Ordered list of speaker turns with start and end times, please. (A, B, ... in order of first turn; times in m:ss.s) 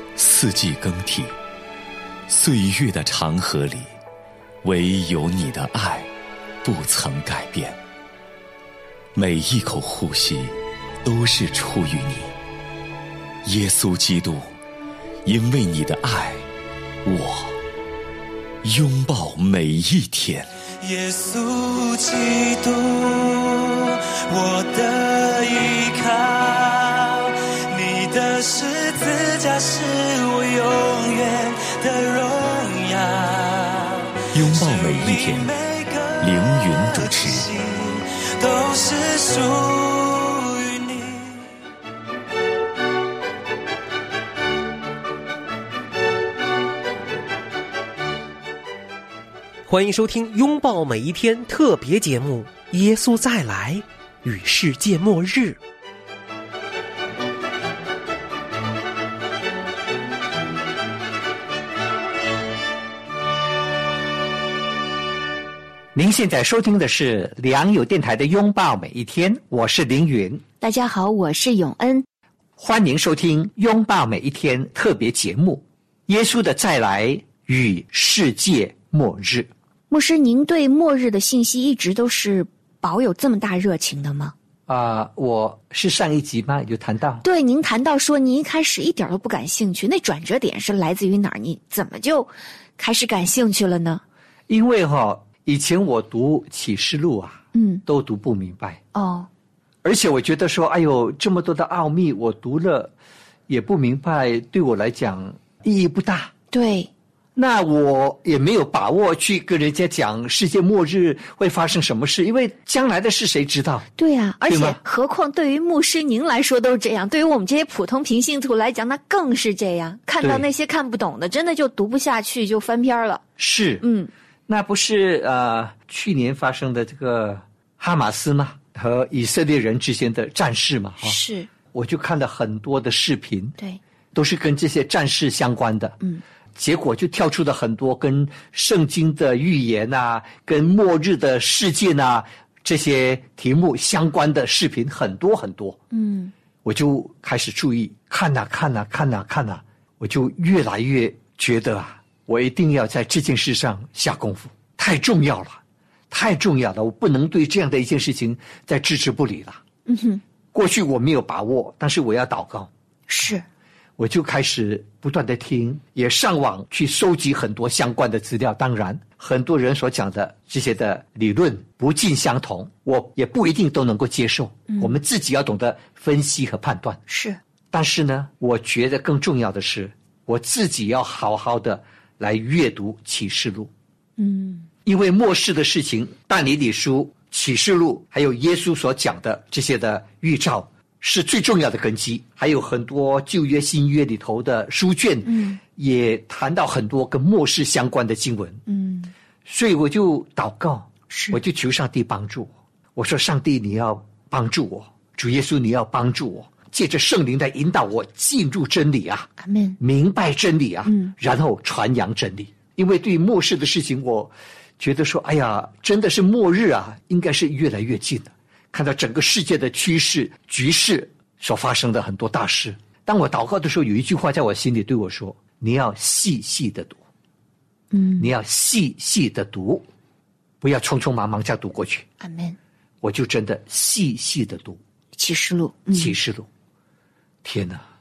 0:00.2-0:01.3 A
0:02.3-0:03.9 A
0:04.6-0:06.1 A
0:06.6-0:07.8 A
0:09.2-0:12.3 A
0:13.4-0:14.5 A
0:15.2-0:16.5 A
0:17.0-0:17.6 A
0:18.6-0:20.5 A
0:20.8-0:41.5 B
0:34.3-0:35.6 A
0:36.2-0:37.5 A
0:49.7-0:55.6 C
1:05.9-1:10.4 D
1:10.6-1:12.1 E
1:12.6-1:19.5 D
1:19.9-1:24.3 E
1:24.7-1:27.2 D
1:27.2-1:34.0 E
1:34.5-1:38.8 D
1:37.5-1:37.8 E
1:38.9-1:39.3 E
1:39.8-1:42.9 D
1:43.5-1:46.3 D
1:46.5-1:46.9 E
1:47.4-1:53.9 D
1:54.0-2:03.2 E
1:54.5-1:54.8 D
2:00.2-2:00.5 D
2:03.4-2:03.8 D
2:03.8-2:04.1 E
2:04.5-2:11.2 D
2:11.0-2:11.5 E
2:11.7-2:13.6 D
2:14.1-2:16.0 D
2:16.6-2:25.8 D
2:25.9-2:26.3 E
2:26.6-2:39.6 D
2:39.9-2:40.2 E
2:40.5-2:42.7 D
2:43.1-2:43.4 E
2:44.0-2:57.0 D
2:54.7-2:55.0 E
2:57.1-2:57.4 E
2:57.7-3:03.7 D
3:04.2-3:04.7 E
3:04.8-3:18.6 D
3:15.2-3:15.6 E
3:18.7-3:19.1 E
3:19.4-3:47.0 D
3:21.1-3:21.4 E
3:29.4-3:29.8 E
3:30.8-3:31.1 E
3:47.9-3:48.3 E
3:48.2-3:49.9 D
3:50.6-3:52.1 D
3:52.2-3:52.6 E
3:53.0-3:54.8 D
3:55.2-3:56.2 E
3:55.9-3:56.5 D
3:57.4-3:57.8 D